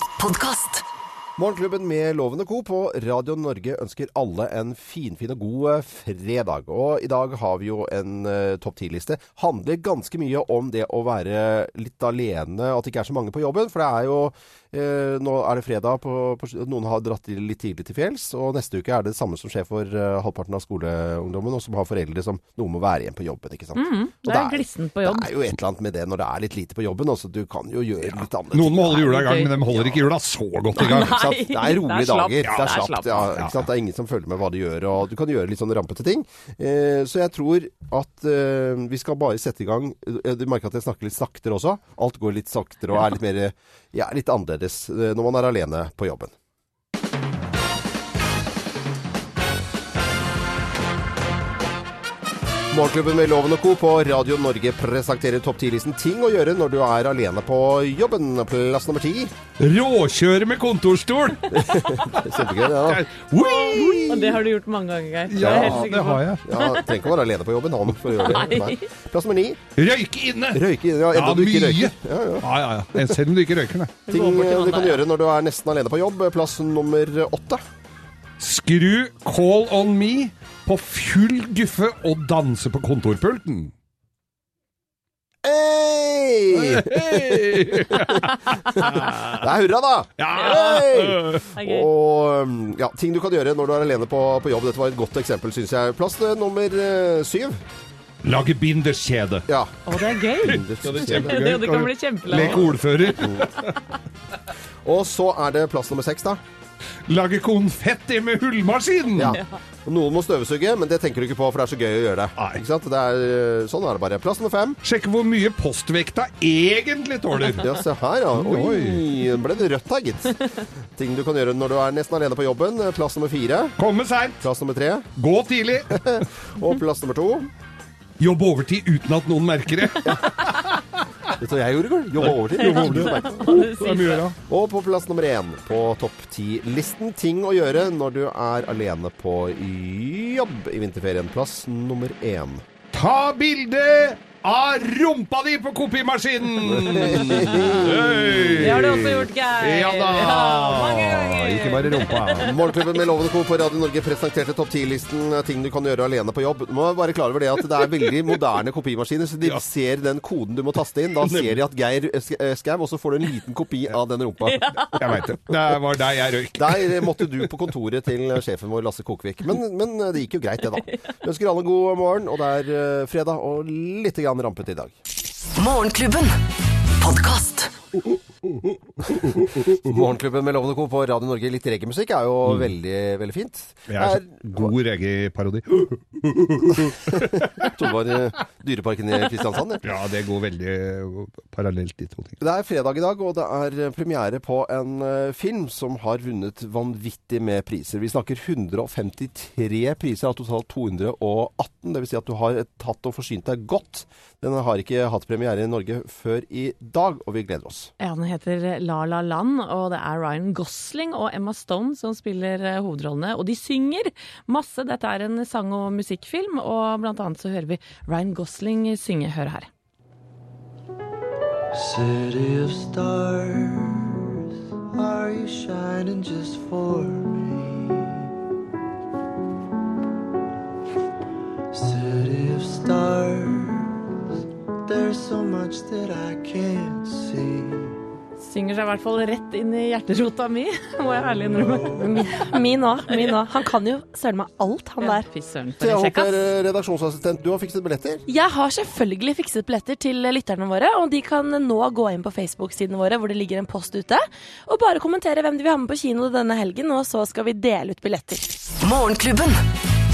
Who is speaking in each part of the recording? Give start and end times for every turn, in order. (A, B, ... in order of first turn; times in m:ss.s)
0:00.2-0:00.8 A
0:01.4-0:29.2 B
0:23.8-0:25.3 C
0:28.5-0:31.2 D
0:29.0-0:29.6 C
0:29.7-0:30.1 B
0:30.8-0:33.3 C
0:31.0-0:46.3 B
0:32.4-0:33.6 D
0:52.7-0:59.3 B
0:59.6-1:04.0 D
1:01.6-1:04.4 B
1:03.5-1:06.9 C
1:05.3-1:06.4 D
1:05.4-1:05.8 B
1:06.5-1:09.6 B
1:08.1-1:08.8 C
1:09.8-1:10.6 D
1:10.5-1:12.5 B
1:11.1-1:14.0 D
1:14.1-1:15.0 C
1:14.1-1:17.6 B
1:18.4-1:23.7 D
1:25.4-1:37.6 B
1:26.6-1:29.4 D
1:30.2-1:31.4 D
1:30.4-1:30.8 C
1:31.6-1:31.9 C
1:38.2-1:39.4 D
1:39.5-1:39.7 B
1:39.9-1:42.7 C
1:40.4-1:41.4 B
1:40.5-1:43.7 D
1:43.2-1:43.5 B
1:44.8-1:46.4 B
1:47.1-1:49.4 D
1:49.2-1:54.8 B
1:54.8-1:57.7 D
1:57.5-2:00.4 B
1:58.3-1:59.0 D
2:01.0-2:03.8 B
2:03.8-2:04.4 D
2:04.4-2:05.1 B
2:05.2-2:06.1 D
2:05.9-2:07.5 B
2:08.2-2:10.6 D
2:11.4-2:13.6 B
2:12.2-2:14.4 D
2:12.6-2:14.2 C
2:14.5-2:22.6 B
2:22.9-2:32.5 D
2:26.7-2:28.1 B
2:28.6-2:32.4 C
2:32.4-2:45.3 B
2:41.2-2:41.6 D
2:44.5-2:44.9 C
2:45.0-2:47.5 D
2:46.6-2:55.0 B
2:55.6-2:56.4 A
2:57.0-2:57.8 A
2:58.6-2:59.8 D
2:59.8-3:04.7 B
3:03.9-3:07.7 D
3:06.9-3:09.8 B
3:09.8-3:12.4 D
3:12.4-3:27.9 B
3:28.0-3:39.7 C
3:41.7-3:44.2 E
3:44.9-3:48.2 E
3:51.7-3:54.0 E
3:54.8-3:57.9 E
3:58.4-4:02.5 C
4:02.0-4:05.3 F
4:03.1-4:03.5 C
4:05.0-4:06.3 C
4:05.8-4:08.2 B
4:08.3-4:18.4 F
4:18.8-4:19.6 A